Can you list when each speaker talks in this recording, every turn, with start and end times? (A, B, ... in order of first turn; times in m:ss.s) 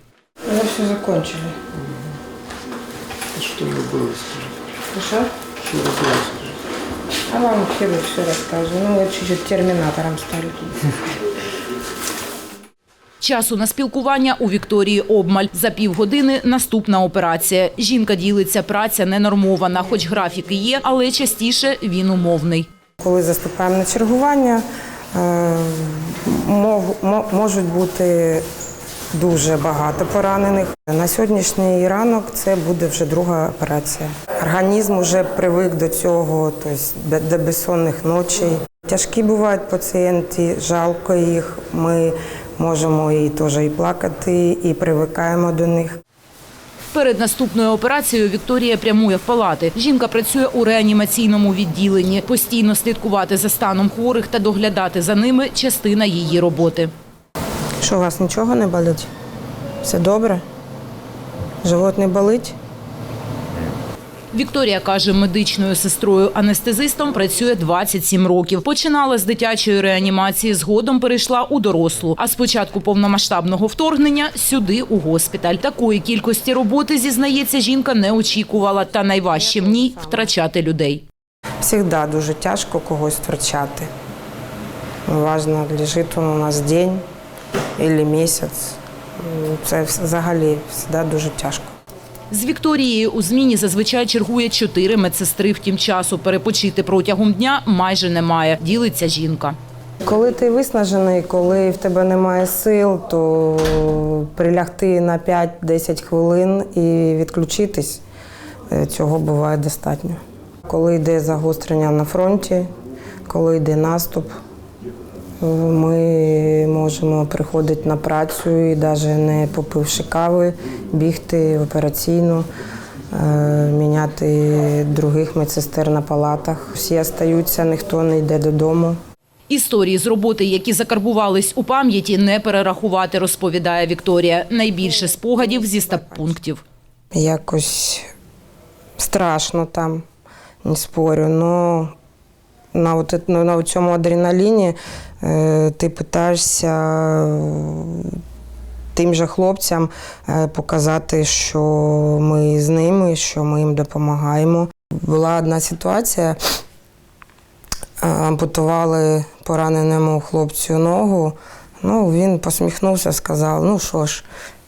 0:00.5-0:01.6 A
0:03.3-0:04.6 B
0:04.9-0:05.3 A
0:05.6-0:06.6 B
0:07.3-0:10.9 A
0:13.2-0:22.7 C
0:23.0-0:28.4 A
0:29.1-0:46.0 A
0:46.9-0:56.9 C
0:57.8-0:59.1 A
0:59.8-1:00.4 A
1:01.6-1:02.6 A
1:04.3-1:21.0 C
1:19.3-1:20.3 A
1:21.6-1:23.9 A
1:25.1-1:27.0 A
1:27.8-1:31.8 A
1:32.3-1:39.6 C
1:40.0-1:48.0 A
1:48.7-1:52.7 A
1:53.3-1:54.4 A
1:55.4-2:02.5 A
2:03.1-2:09.0 A
2:09.5-2:16.6 C
2:15.0-2:16.4 A
2:17.1-2:18.1 A
2:19.0-2:20.0 A
2:20.6-2:21.9 A
2:22.7-2:28.2 A
2:28.9-2:36.4 A
2:38.0-2:44.2 A